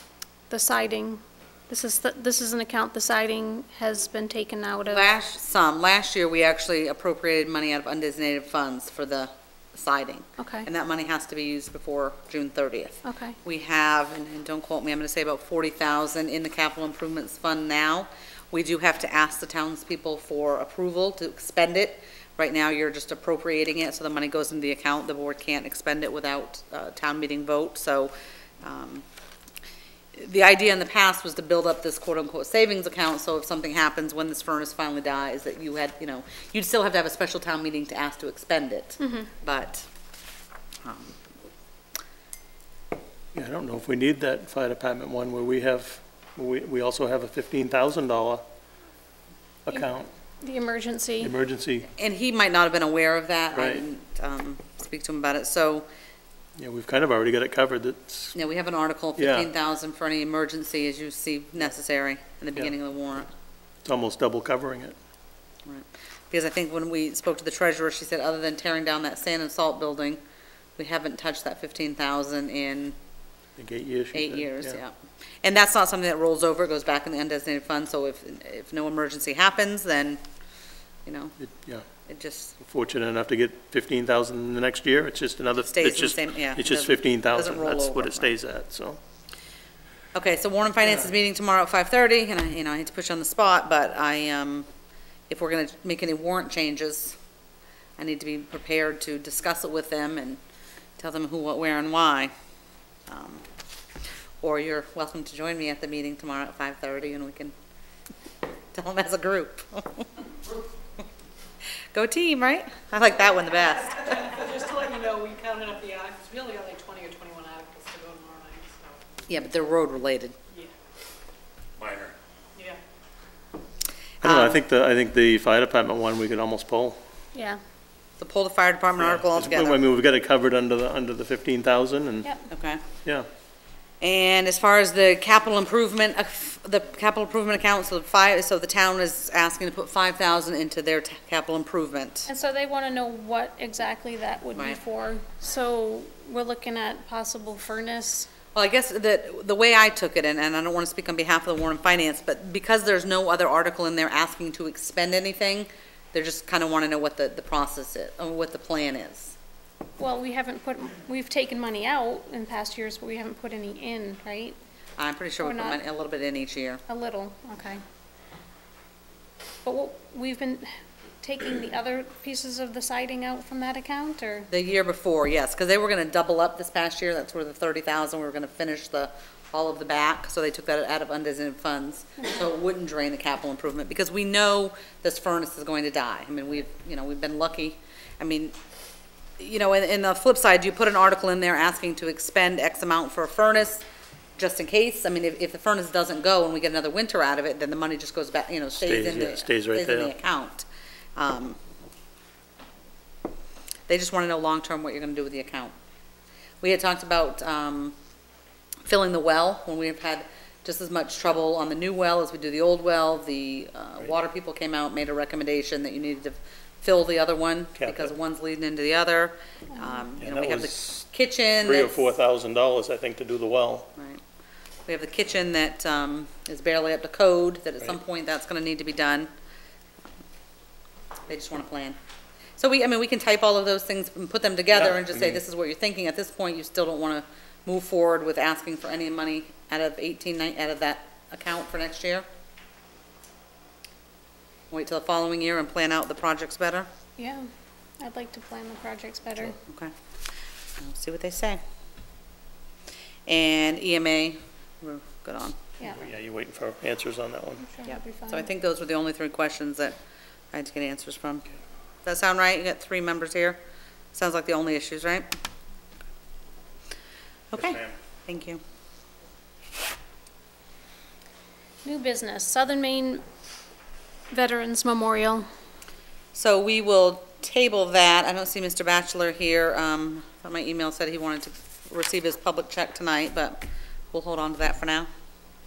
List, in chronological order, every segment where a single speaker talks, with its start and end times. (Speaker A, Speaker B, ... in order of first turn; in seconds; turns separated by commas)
Speaker A: 0.5-5.1, Speaker B: 4.9-28.1, Speaker A: 10.4-10.7, Speaker A: 13.0-13.4, Speaker B: 28.6-29.0, Speaker B: 30.2-39.9, Speaker A: 39.0-39.3, Speaker B: 40.8-41.1, Speaker C: 43.3-48.4, Speaker C: 49.7-50.1, Speaker A: 50.4-51.3, Speaker C: 51.2-51.9, Speaker B: 52.0-55.9, Speaker C: 53.5-53.8, Speaker C: 56.6-58.4, Speaker B: 58.4-63.3, Speaker C: 59.2-59.5, Speaker C: 63.9-65.0, Speaker B: 65.7-70.2, Speaker B: 70.8-73.0, Speaker C: 73.6-74.8, Speaker B: 74.1-74.9, Speaker B: 75.4-80.2, Speaker B: 81.1-81.4, Speaker C: 81.4-81.8, Speaker B: 82.1-82.5, Speaker C: 82.6-89.0, Speaker B: 85.6-88.3, Speaker B: 90.1-94.7, Speaker B: 95.3-97.2, Speaker B: 98.0-100.4, Speaker B: 101.0-102.3, Speaker B: 103.1-103.4, Speaker B: 104.4-107.5, Speaker B: 108.7-110.1, Speaker B: 111.9-114.4, Speaker D: 114.0-118.9, Speaker B: 119.3-120.4, Speaker D: 121.8-122.7, Speaker B: 124.2-124.6, Speaker C: 124.2-127.0, Speaker A: 127.3-127.6, Speaker B: 128.2-129.8, Speaker C: 129.0-132.3, Speaker B: 132.5-132.8, Speaker B: 134.0-142.3, Speaker A: 142.3-148.3, Speaker B: 144.6-144.8, Speaker B: 148.6-159.4, Speaker A: 160.0-164.6, Speaker B: 165.0-166.8, Speaker A: 165.4-165.8, Speaker A: 166.9-167.8, Speaker A: 169.6-174.5, Speaker B: 174.5-188.5, Speaker B: 189.4-193.8, Speaker B: 194.4-201.6, Speaker C: 198.8-200.1, Speaker B: 203.9-205.7, Speaker B: 206.6-207.9, Speaker B: 208.8-222.1, Speaker C: 217.8-218.1, Speaker C: 220.2-221.0, Speaker C: 221.6-223.9, Speaker B: 224.0-224.2, Speaker B: 224.9-229.3, Speaker B: 231.3-232.0, Speaker B: 232.6-242.3, Speaker C: 234.7-235.4, Speaker B: 244.7-246.9, Speaker A: 247.2-247.5, Speaker A: 248.0-249.6, Speaker B: 249.7-249.9, Speaker B: 250.8-251.6, Speaker B: 253.3-255.6, Speaker C: 255.9-257.6, Speaker A: 257.6-258.5, Speaker B: 257.9-260.0, Speaker B: 260.5-261.4, Speaker B: 262.1-263.6, Speaker B: 264.1-265.3, Speaker B: 267.5-268.6, Speaker A: 271.8-273.2, Speaker A: 274.3-275.4, Speaker B: 276.4-283.6, Speaker B: 284.1-285.1